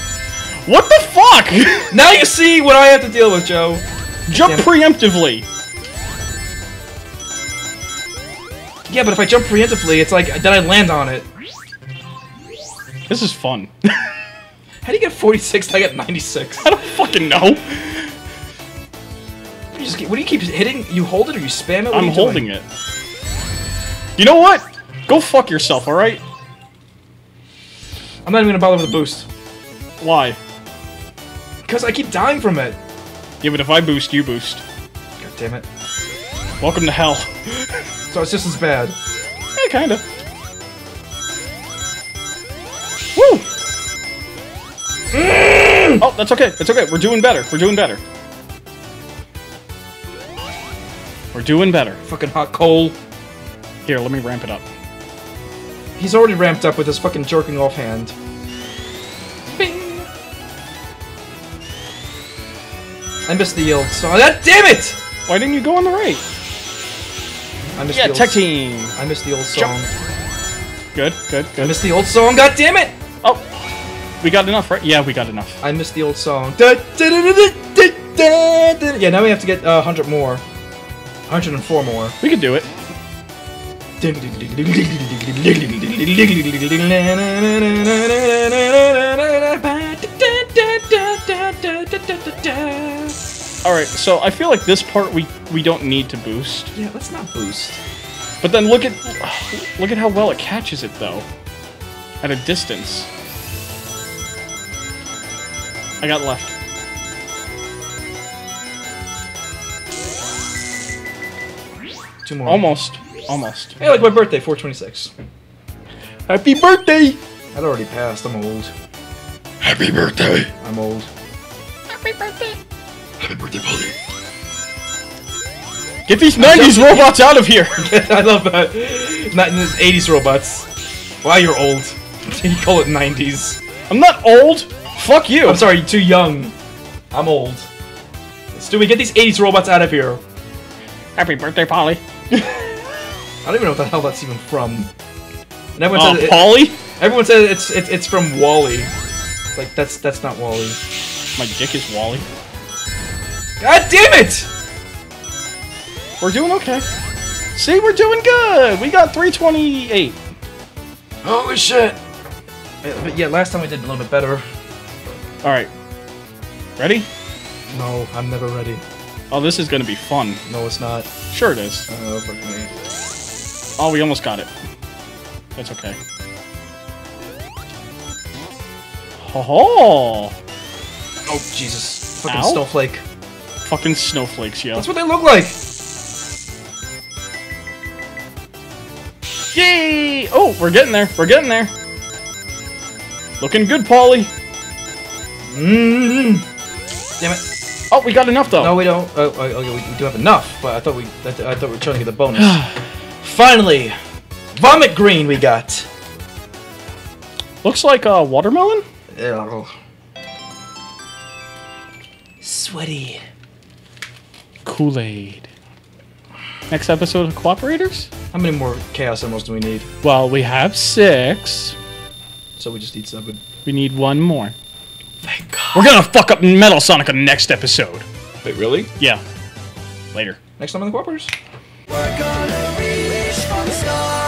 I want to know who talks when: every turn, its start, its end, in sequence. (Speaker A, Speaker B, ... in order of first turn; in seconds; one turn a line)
Speaker A: 0.7-1.9
Speaker B: 1.9-4.7
Speaker A: 4.3-5.5
Speaker B: 8.9-11.3
Speaker A: 13.1-14.1
Speaker B: 14.8-16.7
Speaker A: 16.6-18.1
Speaker B: 19.7-22.5
Speaker A: 21.9-22.6
Speaker A: 24.2-26.2
Speaker B: 28.2-29.3
Speaker A: 30.0-30.4
Speaker B: 31.6-32.8
Speaker A: 33.4-34.6
Speaker B: 35.2-35.6
Speaker A: 36.6-37.8
Speaker B: 38.1-39.0
Speaker A: 39.6-40.0
Speaker A: 43.1-43.5
Speaker B: 45.1-46.0
Speaker A: 46.0-48.0
Speaker A: 51.3-52.0
Speaker B: 52.0-53.0
Speaker A: 53.9-54.6
Speaker B: 56.0-58.1
Speaker B: 59.5-60.1
Speaker B: 63.2-65.0
Speaker A: 65.3-66.2
Speaker B: 67.8-68.4
Speaker A: 67.9-69.0
Speaker B: 69.0-69.9
Speaker A: 71.0-71.8
Speaker B: 71.6-72.9
Speaker A: 73.2-73.5
Speaker A: 74.2-75.6
Speaker B: 75.6-80.4
Speaker B: 81.3-82.2
Speaker A: 82.2-82.7
Speaker B: 84.0-93.2
Speaker A: 93.6-96.7
Speaker B: 96.7-97.8
Speaker A: 98.4-101.2
Speaker A: 102.2-103.1
Speaker A: 106.0-106.5
Speaker B: 112.2-112.6
Speaker A: 112.5-113.8
Speaker B: 113.8-115.1
Speaker A: 116.3-117.2
Speaker B: 117.5-118.7
Speaker A: 119.6-120.1
Speaker B: 120.5-121.1
Speaker A: 121.9-122.6
Speaker B: 123.2-123.9
Speaker A: 126.1-127.8
Speaker B: 126.4-127.2
Speaker B: 127.7-130.7
Speaker B: 131.2-133.6
Speaker A: 133.9-135.6
Speaker B: 135.4-136.5
Speaker B: 137.1-137.7
Speaker B: 138.6-140.2
Speaker A: 141.2-142.0
Speaker B: 143.4-144.9
Speaker B: 145.8-148.9
Speaker A: 145.9-146.8
Speaker B: 149.6-150.8
Speaker A: 151.4-152.2
Speaker B: 153.6-154.5
Speaker A: 156.2-156.8
Speaker A: 157.6-160.2
Speaker B: 161.2-162.0
Speaker B: 162.8-164.4
Speaker A: 165.4-165.7
Speaker A: 166.8-167.1
Speaker B: 167.7-168.8
Speaker A: 169.3-170.4
Speaker B: 170.5-171.1
Speaker A: 171.3-171.9
Speaker B: 171.9-172.7
Speaker A: 173.8-174.5
Speaker A: 175.6-176.0
Speaker A: 179.2-180.3
Speaker B: 181.2-183.0
Speaker A: 182.3-182.6
Speaker A: 183.6-184.9
Speaker B: 184.7-185.6
Speaker A: 189.5-191.7
Speaker A: 193.4-194.3
Speaker B: 195.5-196.4
Speaker A: 197.9-198.8
Speaker B: 198.5-202.7
Speaker B: 203.2-204.0
Speaker B: 204.6-205.9
Speaker A: 207.6-208.8
Speaker B: 209.1-209.7
Speaker B: 212.4-213.2
Speaker A: 214.7-215.5
Speaker A: 216.7-218.1
Speaker B: 218.3-219.9
Speaker A: 220.0-221.8
Speaker B: 222.6-223.4
Speaker A: 223.6-224.6
Speaker B: 225.2-226.0
Speaker A: 225.7-228.1
Speaker B: 228.4-228.9
Speaker B: 230.6-231.3
Speaker B: 232.4-233.9